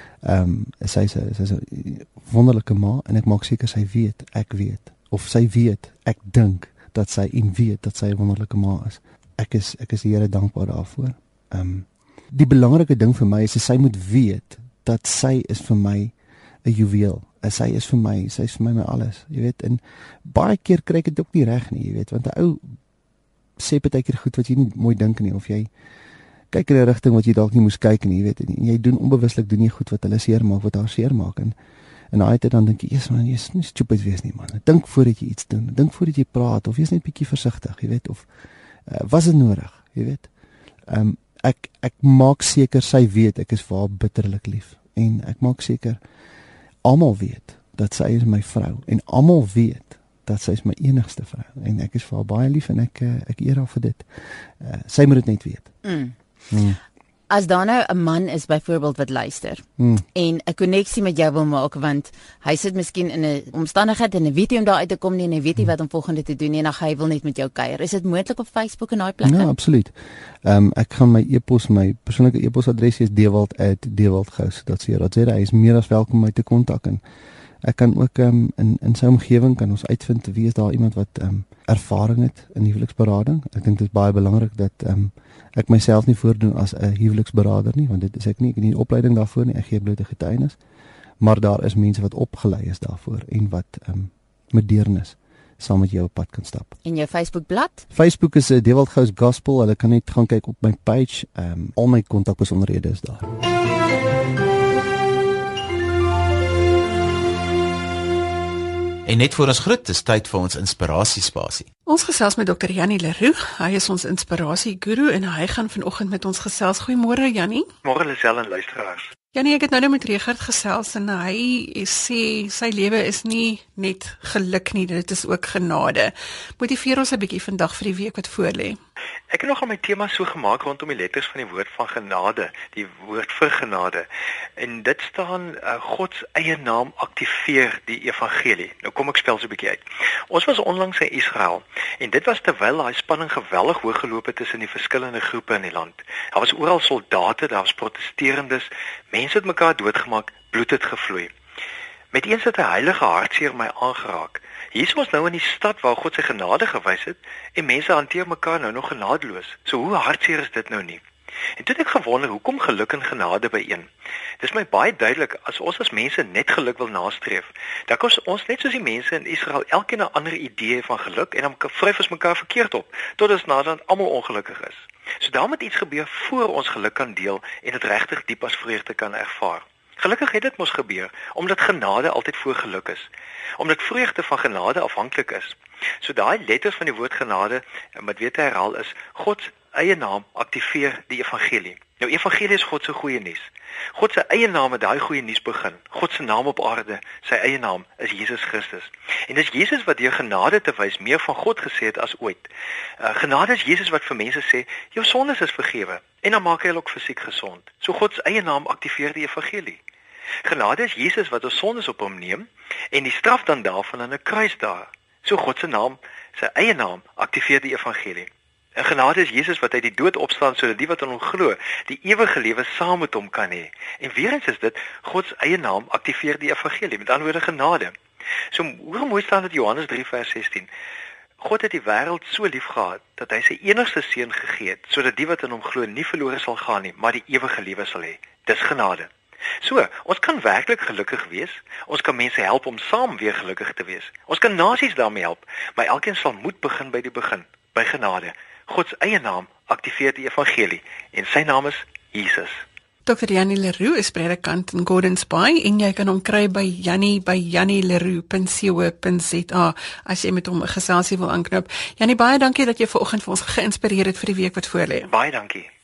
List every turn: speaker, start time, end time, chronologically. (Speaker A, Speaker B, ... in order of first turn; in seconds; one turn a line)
Speaker A: 0.2-16.1
Speaker A: 16.6-22.8
Speaker A: 23.6-25.7
Speaker A: 26.5-31.6
Speaker A: 32.1-38.3
Speaker A: 38.9-40.3
Speaker A: 40.9-46.0
Speaker A: 46.8-54.0
Speaker A: 54.6-55.7
Speaker B: 55.8-56.1
Speaker A: 56.5-56.8
Speaker B: 57.3-69.5
Speaker A: 59.8-60.0
Speaker A: 69.2-77.0
Speaker A: 77.6-90.6
Speaker A: 91.2-96.7
Speaker B: 96.8-97.8
Speaker A: 97.9-103.3
Speaker C: 109.1-111.7
Speaker D: 111.9-117.7
Speaker E: 117.8-119.1
Speaker D: 119.3-128.8
Speaker E: 129.3-134.1
Speaker E: 134.6-151.3
Speaker E: 152.1-161.0
Speaker E: 161.6-163.9
Speaker E: 164.4-202.5
Speaker E: 203.0-209.8
Speaker E: 210.4-227.9
Speaker E: 228.5-230.7
Speaker E: 231.4-239.1
Speaker E: 239.6-252.6
Speaker D: 253.1-265.1
Speaker E: 265.1-265.7